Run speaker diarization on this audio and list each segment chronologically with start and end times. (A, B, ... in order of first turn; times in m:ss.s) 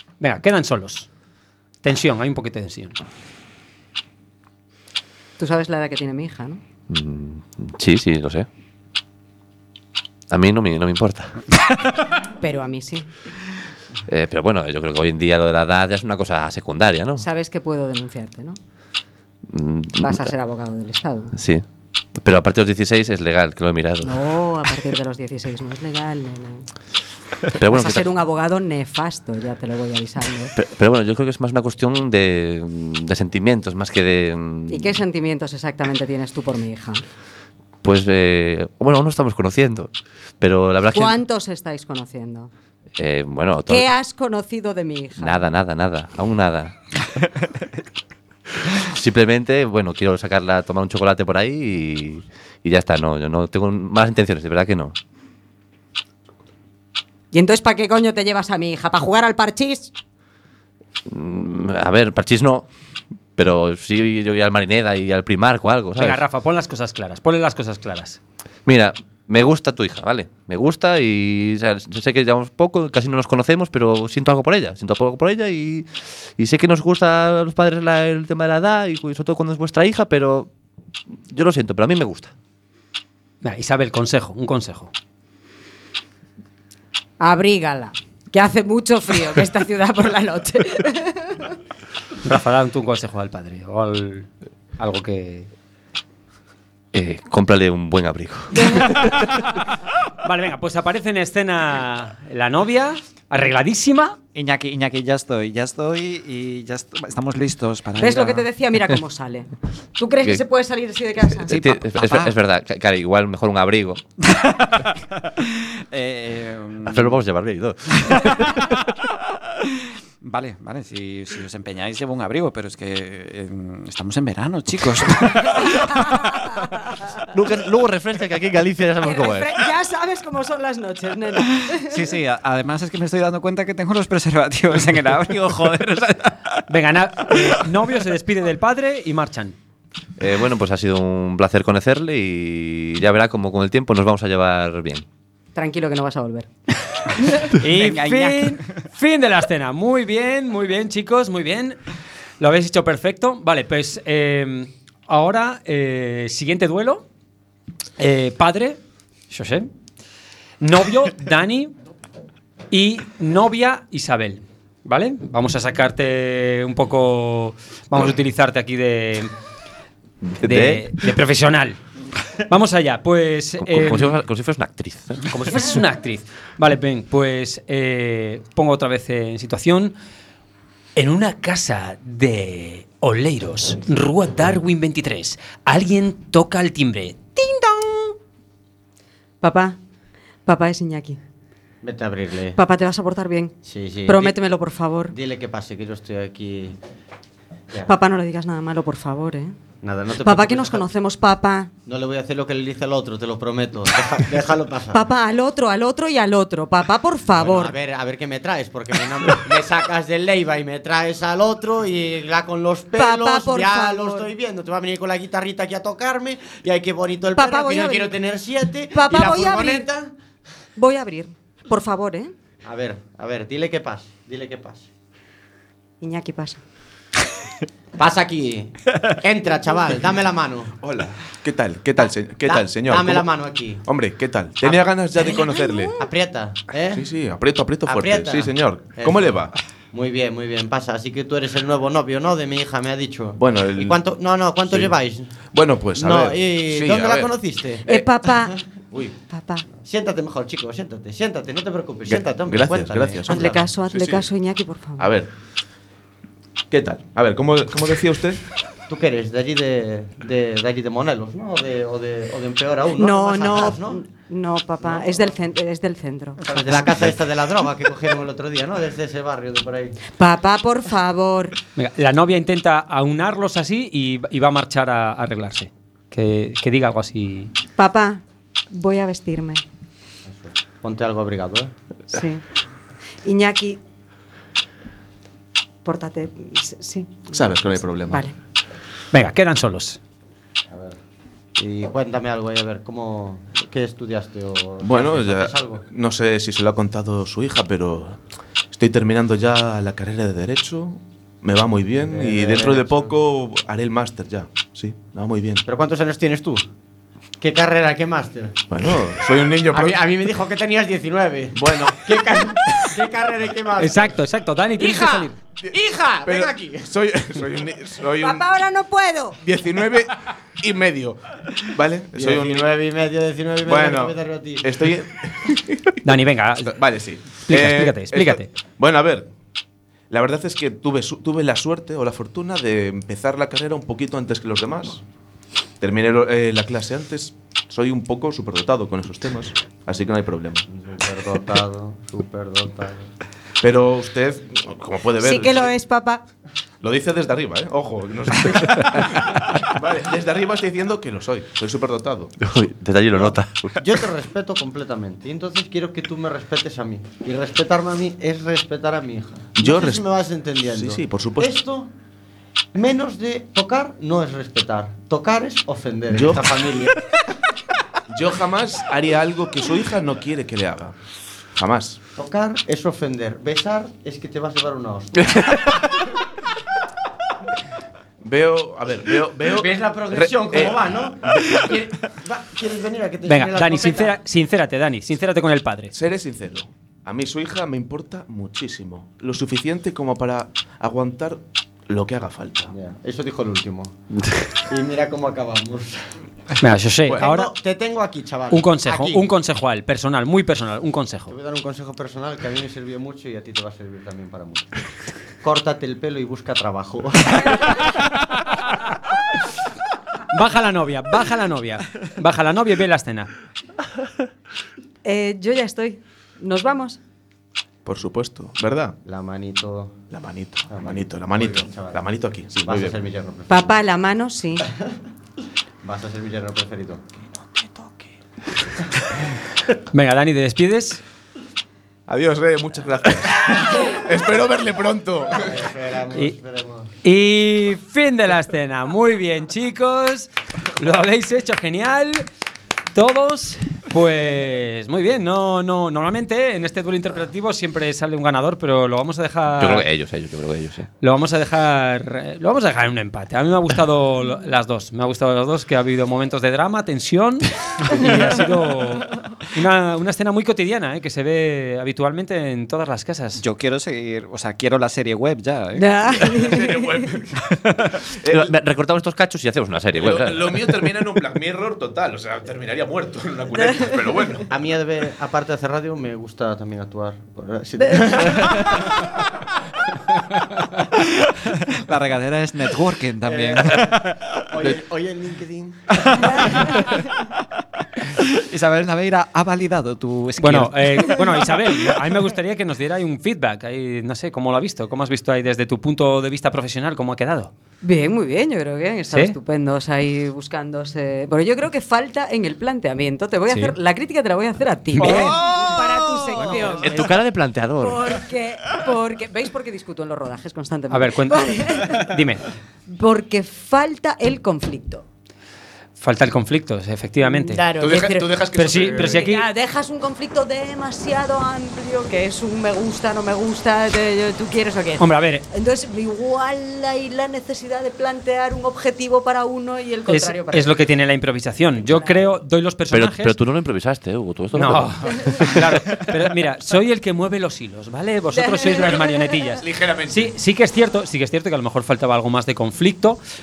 0:00.2-0:01.1 A
0:01.8-0:03.0 A
0:05.4-0:06.6 B
0:06.9-0:08.5 C
0:10.3-0:11.4 C
0:12.4-0:13.1 B
0:14.1-0:17.2 C
0:17.2-0:18.6 B
0:19.5-0:20.3 C
0:20.0-0:21.3 B
0:21.4-0:21.6 C
0:22.2-0:24.2 C
0:24.0-0:26.7 B
0:27.6-0:28.1 C
0:27.6-0:30.5 B
0:30.6-0:35.0 C
0:34.7-0:37.0 B
0:37.8-0:39.9 C
0:40.4-0:41.2 C
0:40.9-0:42.5 B
0:43.0-0:43.9 C
0:43.7-0:45.4 B
0:45.2-0:46.7 C
0:48.8-0:54.9 C
0:57.3-0:59.9 B
1:01.1-1:02.7 C
1:03.4-1:06.2 C
1:06.0-1:08.2 A
1:08.6-1:20.5 C
1:21.3-1:22.3 C
1:23.4-1:24.9 A
1:27.2-1:31.6 B
1:32.2-1:35.5 A
1:36.9-1:39.5 C
1:40.2-1:44.2 A
1:44.3-1:48.5 D
1:48.0-1:51.5 B
1:51.5-1:54.0 C
1:51.5-1:52.4 D
1:54.2-1:57.2 D
1:56.9-1:58.8 C
2:00.2-2:06.3 D
2:07.3-2:09.5 C
2:09.0-2:12.1 B
2:11.7-2:16.6 D
2:16.7-2:19.6 A
2:20.2-2:25.0 C
2:25.5-2:26.5 B
2:27.5-2:31.8 A
2:27.6-2:28.7 D
2:32.4-2:37.0 A
2:38.0-2:39.7 A
2:40.6-2:41.7 A
2:42.7-2:49.3 A
2:50.3-2:50.9 C
2:50.4-2:51.8 A
2:52.5-2:54.2 A
2:53.6-2:55.3 C
2:55.3-2:59.9 A
3:01.0-3:08.1 A
3:09.4-3:09.8 B
3:10.4-3:11.2 B
3:11.8-3:12.6 E
3:12.6-3:13.5 B
3:13.6-3:14.4 E
3:14.0-3:15.1 B
3:15.1-3:16.8 E
3:17.8-3:19.5 B
3:19.8-3:20.8 E
3:20.2-3:21.7 B
3:21.8-3:25.0 E
3:24.9-3:27.7 B
3:27.3-3:40.1 E
3:33.0-3:34.3 B
3:37.4-3:38.1 B
3:38.9-3:39.9 B
3:40.8-3:42.3 B
3:42.6-3:44.9 E
3:46.0-3:46.6 B
3:48.0-3:50.7 E
3:50.8-3:53.3 F
3:52.4-3:53.8 E
3:53.8-3:55.9 F
3:54.6-3:54.9 E
3:55.2-3:56.0 B
3:56.0-3:57.0 E
3:56.9-3:59.5 F
3:57.8-3:59.4 E
3:59.9-4:05.3 E
4:03.4-4:04.0 F
4:04.7-4:04.9 F
4:05.5-4:07.3 F
4:05.9-4:08.6 E
4:07.8-4:08.6 B
4:09.3-4:09.6 B
4:09.8-4:13.6 E
4:12.1-4:14.2 F
4:13.3-4:15.1 B
4:15.0-4:15.3 F
4:16.7-4:18.4 F
4:18.9-4:24.0 E
4:23.0-4:26.9 B
4:24.8-4:25.3 E
4:26.4-4:30.0 E
4:30.2-4:31.6 B
4:31.8-4:37.5 A
4:37.8-4:39.6 B
4:40.2-4:41.7 E
4:42.1-4:42.4 B
4:43.2-4:43.8 B
4:45.8-4:47.4 B
4:47.3-4:48.2 F
4:49.1-4:50.0 A
4:50.7-4:51.0 E
4:51.6-4:55.8 E
4:54.8-4:58.2 F
4:58.7-5:05.6 F
5:02.0-5:03.2 E
5:05.6-5:06.6 E
5:07.4-5:08.6 E
5:08.7-5:10.0 F
5:09.7-5:14.2 E
5:11.5-5:12.4 F
5:13.8-5:15.3 A
5:14.8-5:15.2 B
5:15.6-5:18.4 F
5:15.7-5:16.9 E
5:18.2-5:19.4 B
5:19.4-5:22.7 F
5:22.1-5:24.8 E
5:23.6-5:26.0 F
5:26.0-5:26.7 A
5:26.6-5:29.3 F
5:27.5-5:28.5 A
5:30.1-5:35.0 F
5:35.8-5:40.6 F
5:40.7-5:43.1 E
5:43.6-5:45.7 F
5:45.2-5:46.2 B
5:46.8-5:52.4 F
5:52.4-5:53.8 C
5:53.2-6:01.9 E
5:59.6-6:00.0 F
6:00.7-6:01.6 F
6:02.7-6:07.0 E
6:06.1-6:06.5 F
6:08.1-6:10.9 F
6:11.6-6:12.0 F
6:12.2-6:15.5 E
6:18.2-6:20.7 F
6:19.4-6:24.2 E
6:21.3-6:21.7 F
6:23.3-6:25.9 A
6:25.9-6:32.7 F
6:32.7-6:34.0 E
6:34.6-6:36.1 E
6:36.6-6:37.5 A
6:37.1-6:39.3 E
6:38.5-6:41.3 A
6:41.3-6:44.7 E
6:45.4-6:47.8 E
6:50.3-6:53.3 A
6:55.0-6:57.0 B
6:57.8-6:59.0 F
6:59.0-7:00.0 E
7:00.1-7:03.0 F
7:00.7-7:02.0 E
7:02.6-7:03.8 E
7:03.5-7:04.6 B
7:05.8-7:07.0 E
7:09.9-7:11.0 A
7:12.1-7:15.6 F
7:15.3-7:16.9 E
7:17.0-7:22.2 A
7:22.9-7:29.8 A
7:29.6-7:30.9 C
7:31.0-7:43.4 A
7:43.4-7:46.5 D
7:45.8-7:47.1 B
7:46.2-7:47.5 F
7:48.2-7:48.5 F
7:48.2-7:50.5 C
7:49.9-7:54.5 F
7:53.5-7:54.0 B
7:54.5-7:59.1 E
8:01.2-8:04.4 D
8:03.2-8:06.6 E
8:06.2-8:07.2 D
8:08.0-8:11.4 D
8:10.4-8:17.5 A
8:17.8-8:27.2 B
8:19.1-8:19.4 A
8:23.5-8:23.8 A
8:25.0-8:25.4 A
8:25.0-8:25.7 C
8:26.6-8:28.2 C
8:27.8-8:32.2 B
8:30.9-8:32.4 A
8:32.9-8:35.0 B
8:36.0-8:37.6 A
8:37.2-8:50.8 B
8:37.8-8:39.3 F
8:38.5-8:39.4 A
8:45.0-8:45.4 A
8:50.1-8:53.4 A
8:51.8-8:52.2 B
8:52.9-8:55.7 C
8:54.5-9:03.2 A
8:58.3-8:59.3 B
8:59.6-9:00.3 F